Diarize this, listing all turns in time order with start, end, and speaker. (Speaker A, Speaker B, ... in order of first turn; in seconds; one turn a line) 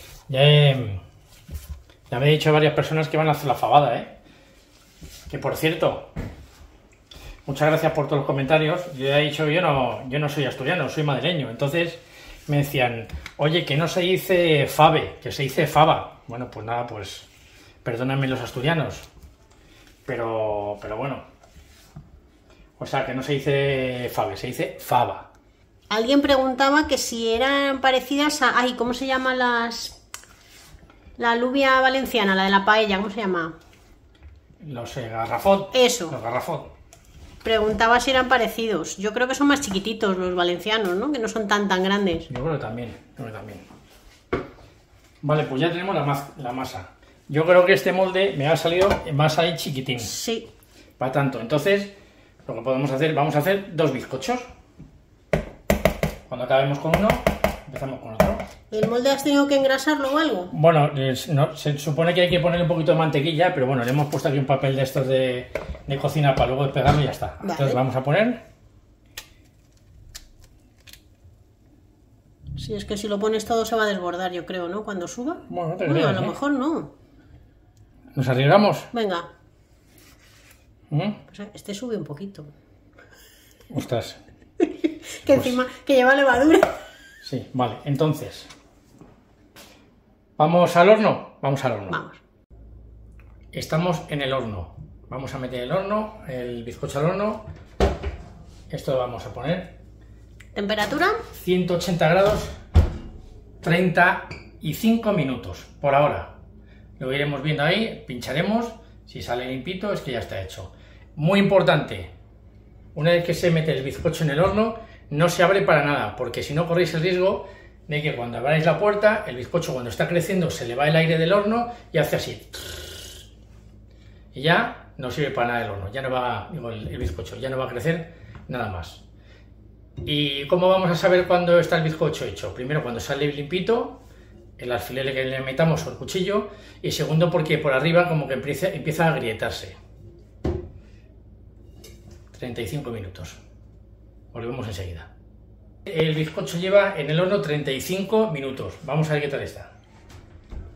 Speaker A: 0.3-1.0
Speaker A: 2.1-4.2
Speaker A: 5.3-6.1
Speaker A: 7.5-17.3
Speaker A: 17.8-19.1
Speaker A: 20.1-21.2
Speaker A: 22.8-25.3
Speaker B: 25.9-30.0
Speaker B: 31.2-33.5
Speaker A: 34.6-36.7
Speaker B: 35.7-36.1
Speaker B: 37.4-42.3
Speaker A: 42.3-43.7
Speaker A: 45.2-50.1
Speaker B: 50.0-50.5
Speaker A: 51.0-51.9
Speaker A: 52.4-54.5
Speaker A: 56.3-58.4
Speaker B: 58.7-60.5
Speaker A: 60.5-68.4
Speaker B: 67.4-67.8
Speaker B: 72.5-76.9
Speaker A: 75.5-76.3
Speaker A: 78.1-78.9
Speaker B: 78.9-79.3
Speaker A: 80.9-81.2
Speaker B: 81.3-82.5
Speaker A: 83.7-84.2
Speaker B: 84.6-86.8
Speaker A: 85.2-85.6
Speaker A: 87.2-88.5
Speaker A: 90.4-92.0
Speaker B: 91.9-92.2
Speaker A: 93.5-97.5
Speaker A: 98.7-99.8
Speaker B: 100.5-101.2
Speaker A: 101.3-102.5
Speaker A: 103.6-106.3
Speaker A: 107.0-112.1
Speaker A: 112.9-123.0
Speaker A: 124.3-129.0
Speaker A: 130.0-134.0
Speaker A: 134.6-139.8
Speaker A: 142.3-143.4
Speaker A: 144.3-145.1
Speaker A: 145.8-149.7